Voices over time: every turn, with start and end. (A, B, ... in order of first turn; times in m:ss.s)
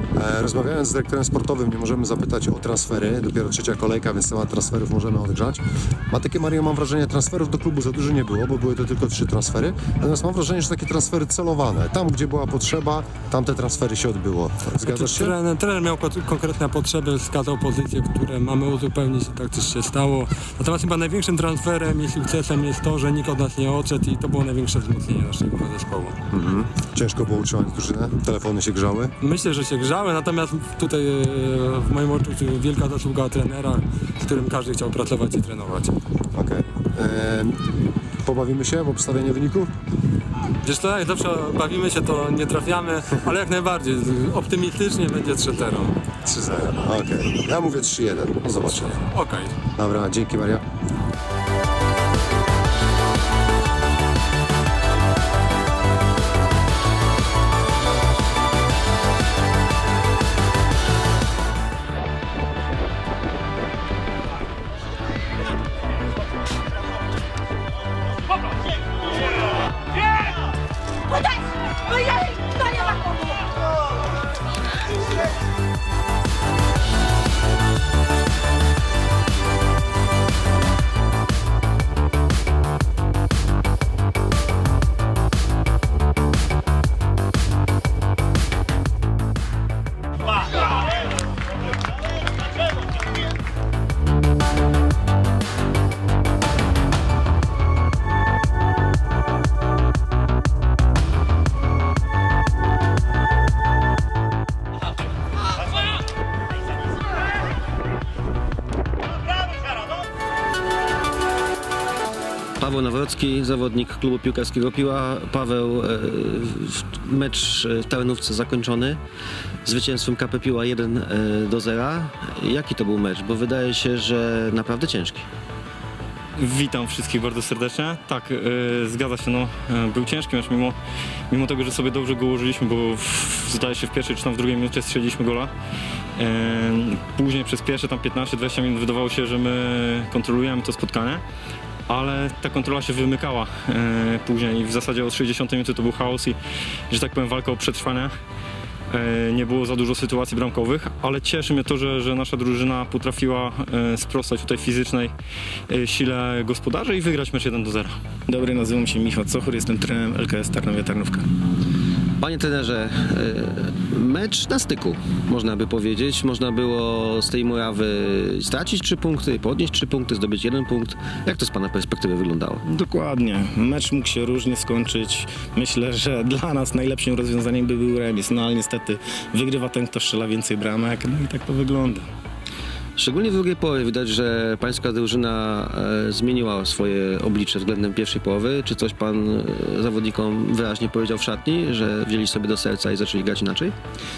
0:00.1-0:15.4 A
0:14.9-0:26.2 B
0:26.3-0:29.1 A
0:29.2-0:36.0 B
0:36.4-0:37.6 A
0:38.2-0:39.7 A
0:40.6-0:46.0 B
0:46.2-0:49.0 A
0:49.1-0:49.6 B
0:49.8-0:50.6 A
1:52.6-1:59.0 C
1:59.6-2:05.3 C
2:06.4-2:10.8 D
2:11.3-2:15.5 D
2:16.2-2:21.2 D
2:21.9-2:26.4 D
2:26.9-2:28.1 D
2:28.9-2:35.1 D
2:35.7-2:38.0 D
2:38.3-2:41.3 E
2:42.2-2:52.6 C
2:52.6-3:02.1 E
3:03.0-3:13.8 C